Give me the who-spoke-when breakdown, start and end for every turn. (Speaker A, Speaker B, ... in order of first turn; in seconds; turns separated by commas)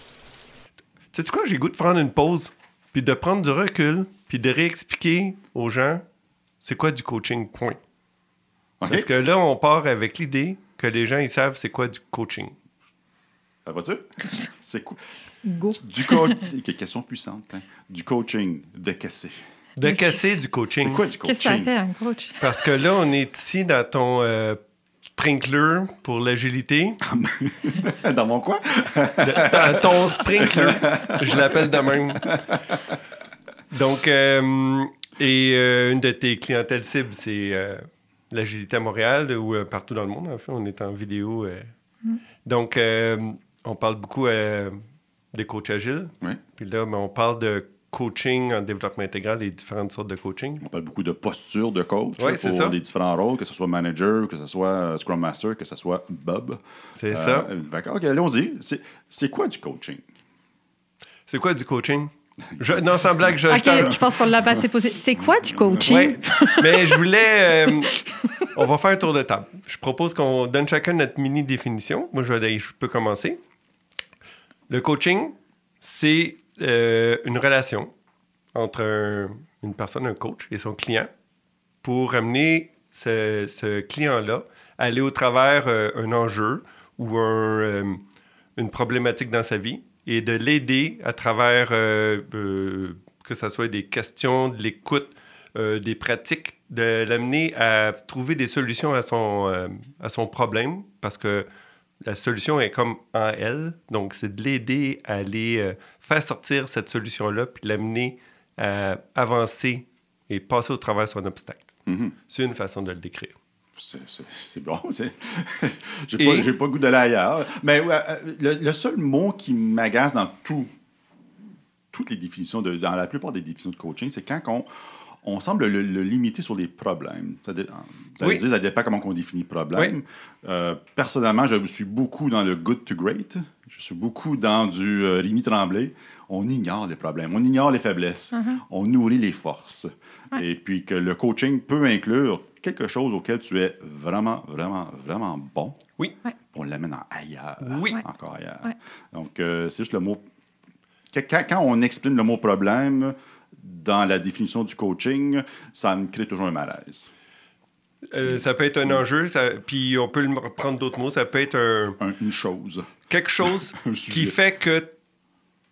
Speaker A: 1.1-6.0, Speaker A: 6.6-7.8, Speaker B: 8.8-9.1, Speaker A: 8.9-12.5, Speaker B: 13.7-15.0, Speaker C: 15.4-16.4, Speaker B: 15.8-19.4, Speaker A: 19.8-21.1, Speaker C: 19.8-20.2, Speaker B: 20.8-21.7, Speaker C: 21.2-22.5, Speaker A: 22.4-24.6, Speaker A: 25.1-27.0, Speaker B: 27.1-31.7, Speaker A: 29.2-32.4, Speaker B: 32.3-32.6, Speaker A: 33.7-41.7, Speaker A: 42.5-44.8, Speaker A: 45.3-50.6, Speaker B: 50.6-60.0, Speaker A: 52.2-52.8, Speaker A: 57.0-57.5, Speaker A: 61.3-64.1, Speaker B: 62.5-64.5, Speaker C: 63.5-67.0, Speaker B: 65.2-66.0, Speaker A: 65.8-68.0, Speaker A: 68.5-73.4, Speaker A: 74.7-77.9, Speaker A: 78.5-81.1, Speaker A: 81.8-88.0, Speaker A: 88.6-101.5, Speaker A: 102.0-111.7, Speaker B: 111.9-112.2, Speaker A: 112.3-113.3, Speaker B: 113.8-120.7, Speaker A: 116.2-116.5, Speaker B: 121.9-124.7, Speaker B: 125.2-145.8, Speaker C: 138.3-138.6, Speaker B: 146.5-150.2, Speaker A: 147.6-148.0, Speaker B: 151.1-157.1, Speaker A: 158.1-162.0, Speaker B: 158.2-159.0, Speaker B: 162.0-162.9, Speaker A: 163.1-164.9, Speaker B: 163.8-164.4